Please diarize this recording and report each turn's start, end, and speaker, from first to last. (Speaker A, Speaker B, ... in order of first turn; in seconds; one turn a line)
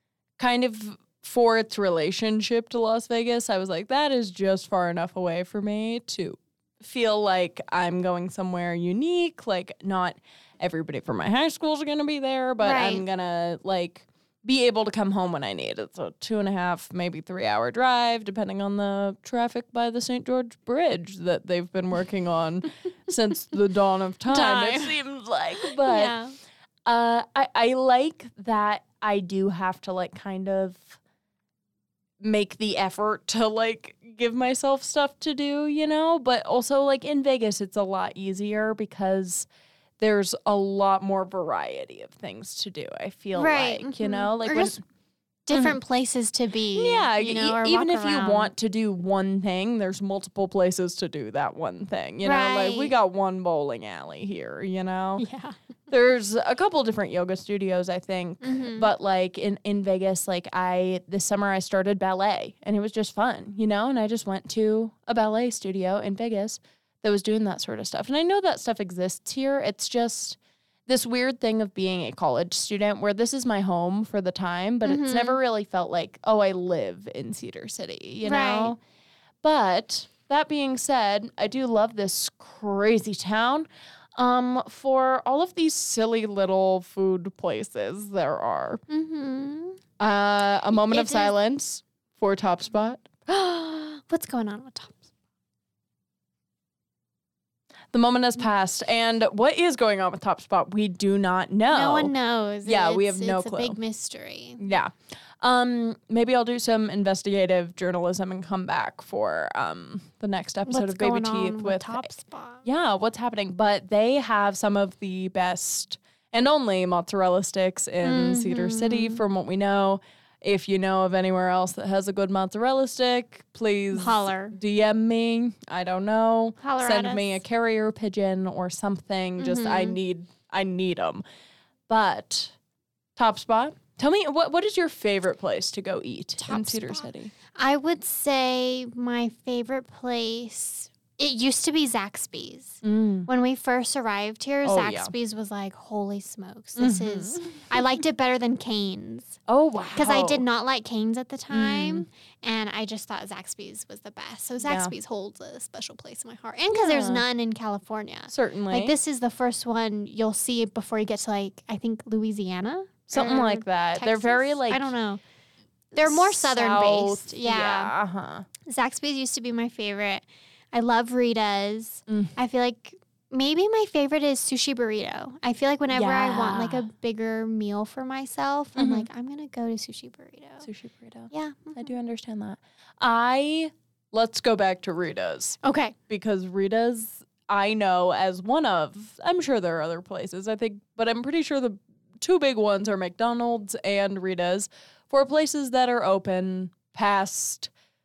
Speaker A: 0.4-26.2
Speaker B: 12.6-13.0
Speaker B: 24.3-25.0
Speaker B: 25.6-26.4
Speaker A: 26.9-31.0
Speaker A: 32.2-39.5
Speaker A: 40.0-44.8
Speaker B: 43.3-44.8
Speaker B: 45.5-48.5
Speaker A: 45.5-45.8
Speaker A: 46.7-55.2
Speaker B: 52.2-52.9
Speaker B: 55.2-55.5
Speaker A: 55.9-78.8
Speaker B: 58.4-58.9
Speaker B: 74.8-75.4
Speaker B: 78.2-78.7
Speaker A: 79.4-88.8
Speaker B: 88.9-89.8
Speaker A: 90.0-93.1
Speaker B: 90.7-91.3
Speaker B: 93.3-95.0
Speaker A: 97.9-103.8
Speaker B: 101.7-104.6
Speaker A: 104.6-112.1
Speaker B: 110.7-112.6
Speaker A: 112.6-131.2
Speaker B: 118.0-119.2
Speaker B: 123.9-124.6
Speaker B: 126.6-127.4
Speaker B: 129.4-130.0
Speaker A: 131.9-132.5
Speaker A: 133.2-137.3
Speaker B: 136.4-149.4
Speaker A: 142.8-143.3
Speaker A: 144.6-145.1
Speaker A: 146.8-147.8
Speaker A: 149.5-150.4
Speaker B: 149.9-165.2
Speaker A: 151.5-152.1
Speaker A: 154.6-154.9
Speaker A: 156.7-157.2
Speaker A: 158.3-158.9
Speaker A: 163.1-164.9
Speaker B: 165.9-167.9
Speaker A: 165.9-168.4
Speaker B: 168.6-180.7
Speaker A: 172.1-172.3
Speaker A: 175.9-176.9
Speaker A: 178.8-179.1
Speaker A: 180.6-197.7
Speaker B: 181.3-181.9
Speaker B: 185.6-185.9